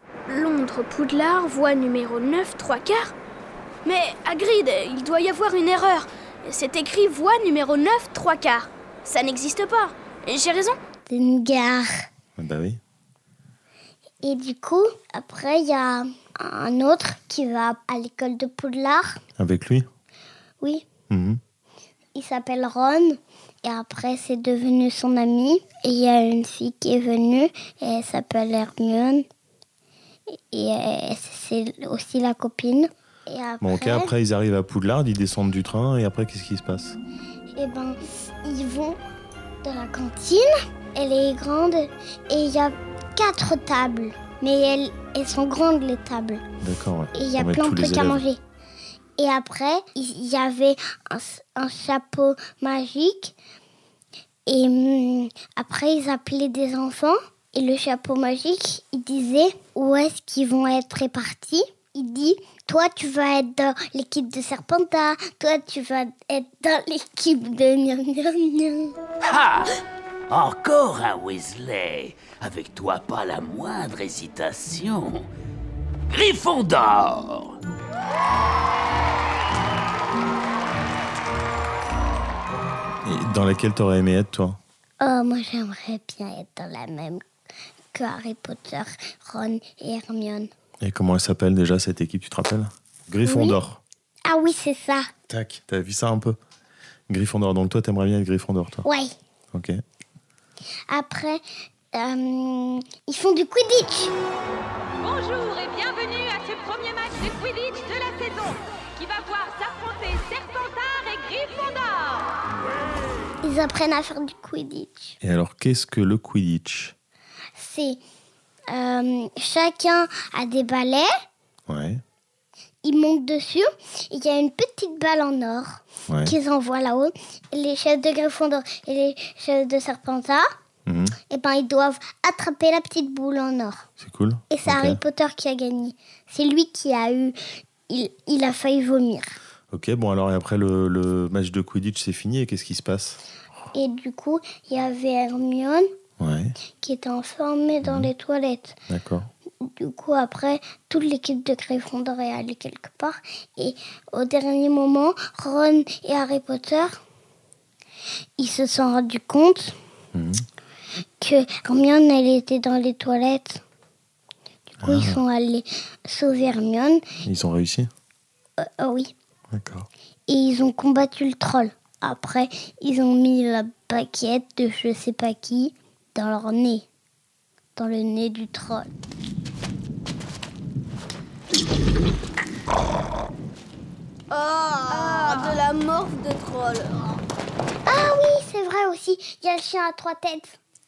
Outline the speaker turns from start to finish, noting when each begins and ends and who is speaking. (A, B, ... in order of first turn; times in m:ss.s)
0:00.3-0:03.1 A
0:03.8-0:10.8 A
0:11.1-0:11.9 B
0:12.4-0:12.8 C
0:14.2-0:19.2 B
0:19.4-0:19.9 C
0:20.6-0:20.8 B
0:21.1-0:21.4 C
0:22.1-0:29.2 B
0:30.3-0:34.1 B
0:33.6-0:37.0 C
0:37.6-0:39.0 B
0:39.6-0:46.4 B
0:46.6-0:48.2 C
0:47.1-0:48.4 B
0:49.2-0:53.3 B
0:54.5-1:08.9 B
1:09.3-1:09.7 D
1:10.3-1:15.3 D
1:16.1-1:17.5 D
1:23.0-1:24.6 C
1:25.0-1:27.2 B
1:27.9-1:30.5 B
1:30.8-1:33.8 C
1:33.2-1:33.6 B
1:34.3-1:35.1 B
1:35.3-1:36.4 C
1:37.1-1:38.8 C
1:38.8-1:39.1 B
1:39.5-1:39.8 C
1:40.9-1:41.4 B
1:41.9-1:44.1 B
1:45.0-1:52.3 E
1:53.4-1:55.2 B
1:55.2-1:56.9 C
1:57.6-1:58.0 B
1:58.7-2:01.1 B
2:01.7-2:02.0 C
2:02.8-2:10.4 B
2:06.1-2:06.3 C
2:10.8-2:11.1 C
2:11.3-2:13.9 B
2:14.0-2:15.0 C
2:14.5-2:19.3 B
2:19.7-2:23.2 C
2:23.7-2:25.9 B
2:26.2-2:26.6 C
2:26.8-2:28.8 B
2:27.8-2:28.1 C
2:28.9-2:29.3 C
2:29.6-2:36.9 B
2:38.4-2:39.7 B
2:40.1-2:40.4 C
2:41.2-2:43.6 B
2:44.8-2:47.0 B
2:44.8-2:45.2 C
2:47.2-2:47.9 C
2:48.6-2:49.1 B
2:49.5-2:49.9 C
2:50.3-2:56.8 B
2:57.8-2:58.9 B
3:04.3-3:07.2 A
3:07.8-3:10.6 B